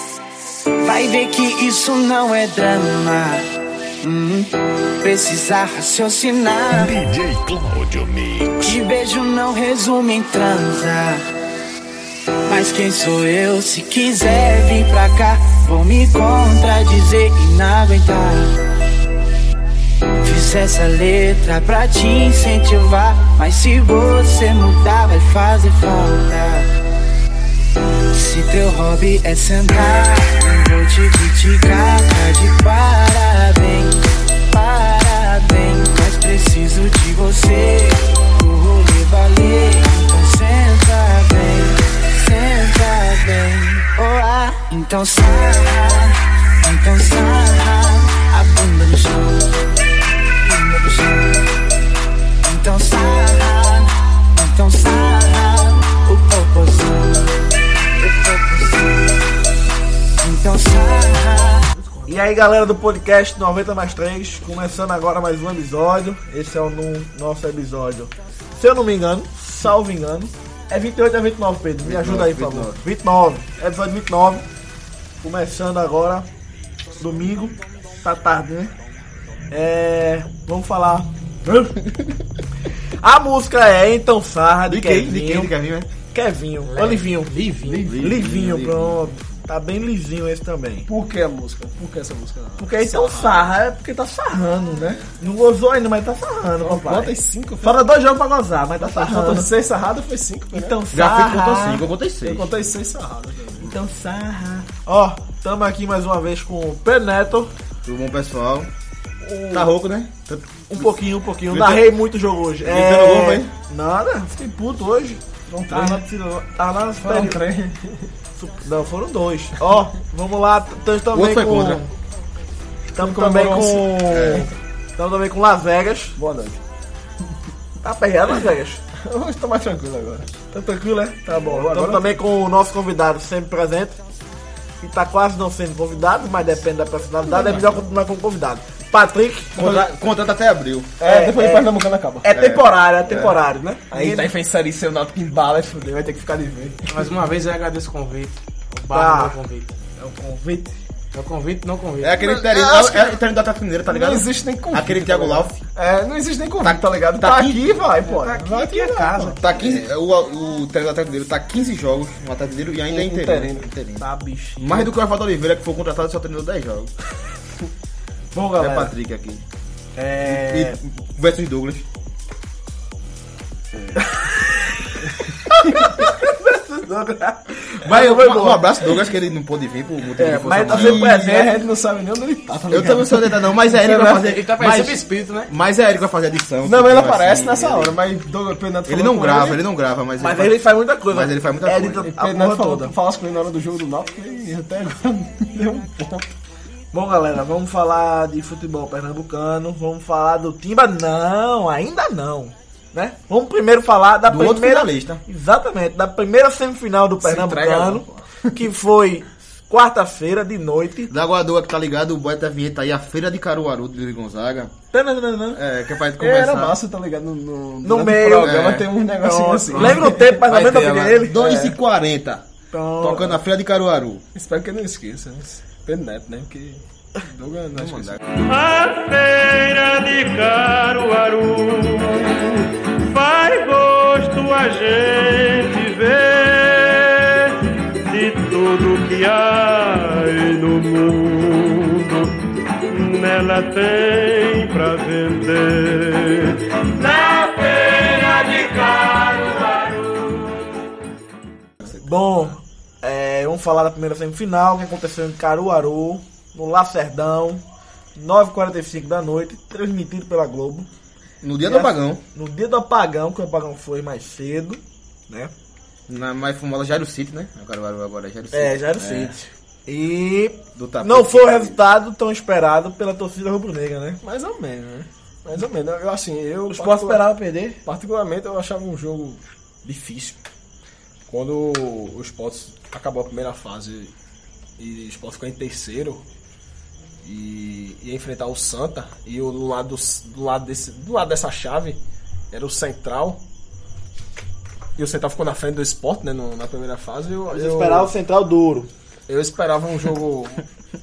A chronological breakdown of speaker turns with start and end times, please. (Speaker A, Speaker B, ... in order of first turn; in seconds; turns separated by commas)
Speaker A: 0.8-7.0, Speaker B: 6.7-8.8, Speaker A: 8.6-11.3, Speaker A: 12.4-18.6, Speaker A: 20.2-26.7, Speaker A: 28.1-49.6, Speaker A: 50.4-51.5, Speaker A: 52.4-57.3, Speaker A: 58.0-59.3, Speaker A: 60.2-61.7, Speaker C: 61.8-62.1, Speaker D: 62.1-74.5, Speaker E: 71.8-72.8, Speaker D: 75.2-76.3, Speaker D: 77.0-78.7, Speaker D: 79.5-81.8, Speaker D: 83.0-85.5, Speaker E: 84.7-85.9, Speaker D: 86.1-90.9, Speaker C: 86.7-87.8, Speaker E: 87.7-89.0, Speaker F: 90.9-93.5, Speaker D: 92.6-99.5, Speaker F: 94.8-95.1, Speaker F: 96.6-97.8, Speaker F: 98.8-100.8, Speaker D: 100.5-101.8, Speaker E: 100.9-102.5, Speaker F: 102.2-103.7, Speaker D: 103.6-107.5, Speaker E: 107.8-108.7, Speaker D: 109.2-109.7, Speaker E: 109.5-111.9, Speaker D: 110.7-117.4, Speaker E: 112.6-113.5, Speaker F: 115.5-116.1, Speaker F: 117.0-118.1, Speaker D: 118.4-121.9, Speaker E: 121.1-121.8, Speaker D: 123.0-126.2, Speaker F: 123.0-124.5, Speaker E: 124.1-124.5, Speaker F: 126.2-126.6, Speaker D: 127.8-128.8, Speaker F: 128.9-130.3, Speaker D: 130.5-134.0, Speaker F: 131.5-132.1, Speaker D: 134.8-139.7, Speaker F: 137.3-137.8, Speaker F: 139.6-139.9, Speaker E: 139.6-141.0, Speaker D: 141.0-141.7, Speaker F: 141.0-142.5, Speaker D: 142.2-144.3, Speaker E: 142.3-143.4, Speaker F: 143.9-147.1, Speaker C: 146.9-149.8, Speaker D: 148.9-149.4, Speaker D: 150.0-150.8, Speaker C: 151.1-152.2, Speaker E: 152.0-155.6, Speaker F: 152.2-153.2, Speaker F: 153.9-159.3, Speaker E: 156.6-157.8, Speaker C: 157.9-159.4, Speaker D: 158.0-159.9, Speaker E: 159.4-164.1, Speaker F: 162.9-163.7, Speaker D: 164.0-164.9, Speaker E: 164.6-166.9, Speaker D: 168.3-168.9, Speaker E: 168.6-169.4, Speaker D: 170.0-170.8, Speaker E: 170.2-171.9, Speaker D: 175.5-178.9, Speaker E: 177.8-181.1, Speaker D: 180.2-181.7, Speaker F: 180.7-184.2, Speaker E: 182.7-188.0, Speaker C: 183.9-185.5, Speaker F: 186.6-189.6, Speaker E: 188.9-192.1, Speaker D: 190.2-192.9, Speaker F: 192.1-196.4, Speaker D: 196.9-211.1, Speaker E: 204.3-205.2, Speaker F: 207.2-208.6, Speaker E: 211.1-214.7, Speaker D: 214.9-215.6, Speaker E: 215.5-216.8, Speaker F: 216.2-220.4, Speaker D: 217.8-221.8, Speaker E: 218.4-218.9, Speaker E: 219.7-222.4, Speaker D: 222.7-223.4, Speaker E: 223.0-224.2, Speaker F: 224.3-228.2, Speaker E: 227.8-228.2, Speaker G: 228.4-242.3, Speaker G: 242.9-250.5, Speaker D: 251.9-257.6, Speaker D: 258.2-260.9, Speaker E: 261.4-262.2, Speaker D: 261.6-265.5, Speaker E: 266.1-268.8, Speaker D: 268.5-274.2, Speaker F: 269.0-269.4, Speaker E: 270.8-271.8, Speaker F: 274.2-277.2, Speaker D: 276.7-277.8, Speaker F: 277.9-280.4, Speaker F: 281.3-284.1, Speaker F: 284.8-286.2, Speaker F: 287.2-292.0, Speaker F: 292.5-293.4, Speaker F: 295.0-298.1, Speaker D: 297.5-298.9, Speaker F: 299.3-300.6